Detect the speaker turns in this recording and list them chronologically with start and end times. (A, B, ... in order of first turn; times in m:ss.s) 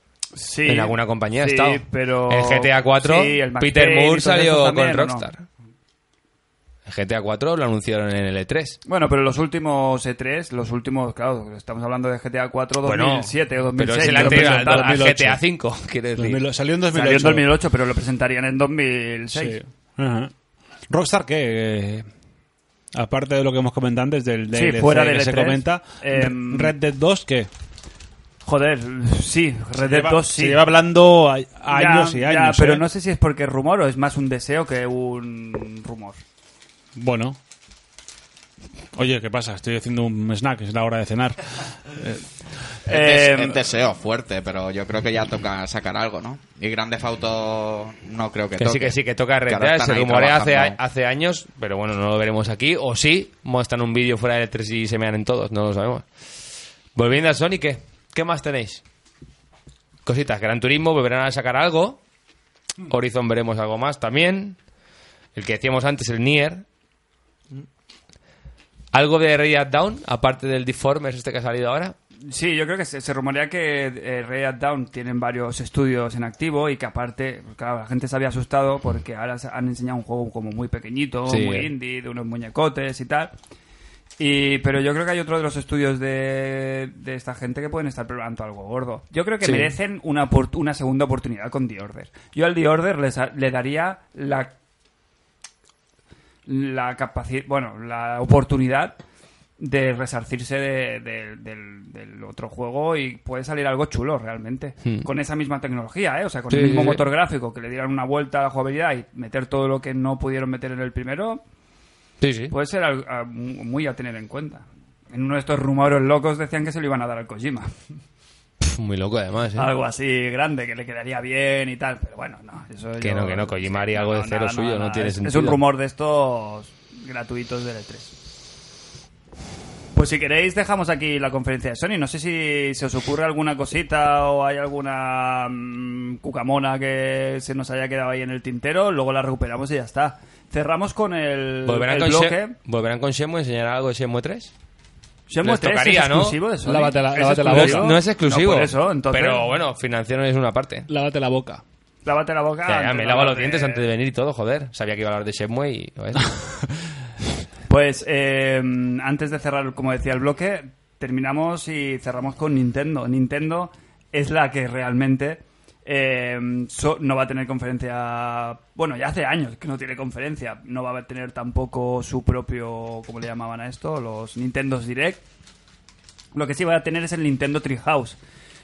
0:00.3-0:05.3 A
0:00.6-0:05.4 B
0:06.8-0:08.8 B
0:08.8-0:15.0 A
0:12.8-0:16.4 B
0:14.0-0:15.4 C
0:16.2-0:17.5 C
0:16.9-0:19.6 A
0:19.3-0:20.3 C
0:20.9-0:22.1 C
0:22.9-0:27.5 C
0:24.5-0:26.7 A
0:28.4-0:30.6 A
0:29.8-0:32.9 C
0:31.7-0:36.2 A
0:37.0-0:37.4 C
0:38.9-0:42.2 C
0:42.8-0:43.6 A
0:42.9-0:50.8 D
0:48.6-0:56.0 B
0:56.9-0:58.8 B
1:00.0-1:02.0 B
1:02.8-1:04.6 B
1:05.3-1:06.6 B
1:08.9-1:11.9 B
1:12.3-1:23.3 A
1:21.3-1:21.7 B
1:24.2-1:34.5 A
1:29.4-1:29.7 B
1:36.4-1:39.0 A
1:39.6-1:51.4 A
1:46.5-1:47.0 B
1:52.2-1:52.5 B
1:52.5-1:57.7 A
1:58.6-1:59.7 B
1:59.5-2:08.1 A
2:03.0-2:05.6 B
2:09.9-2:22.5 A
2:21.6-2:24.5 B
2:25.3-2:29.5 A
2:25.4-2:26.4 B
2:26.6-2:28.0 C
2:27.4-2:30.9 B
2:30.9-2:31.6 C
2:32.0-2:33.8 A
2:32.7-2:36.4 B
2:37.7-2:55.2 A
2:56.3-2:58.2 A